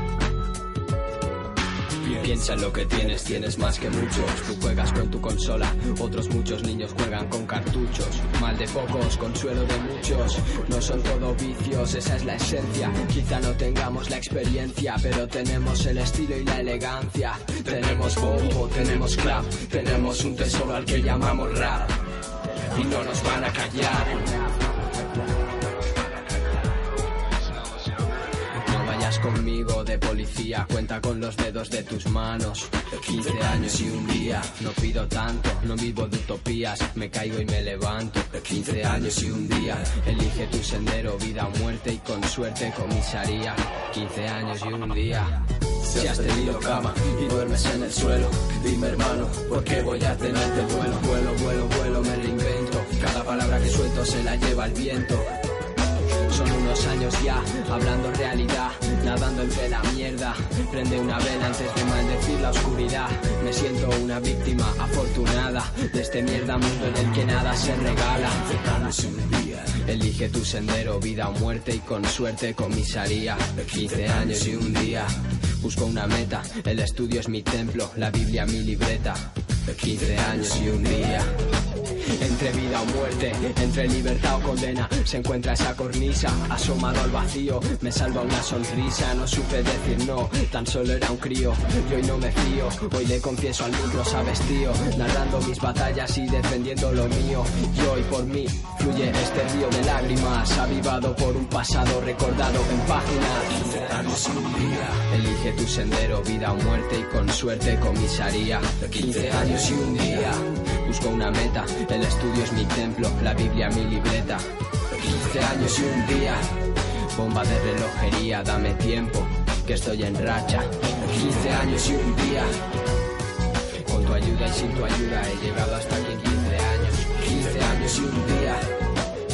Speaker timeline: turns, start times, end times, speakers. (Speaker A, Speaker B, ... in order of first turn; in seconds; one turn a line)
Speaker A: 2.0-22.0
Speaker A: 22.7-24.4
Speaker A: 28.6-55.3
Speaker A: 56.3-69.2
Speaker A: 69.7-81.3
Speaker A: 82.1-114.5
Speaker A: 115.0-116.6
Speaker A: 117.1-122.6
Speaker A: 123.8-128.7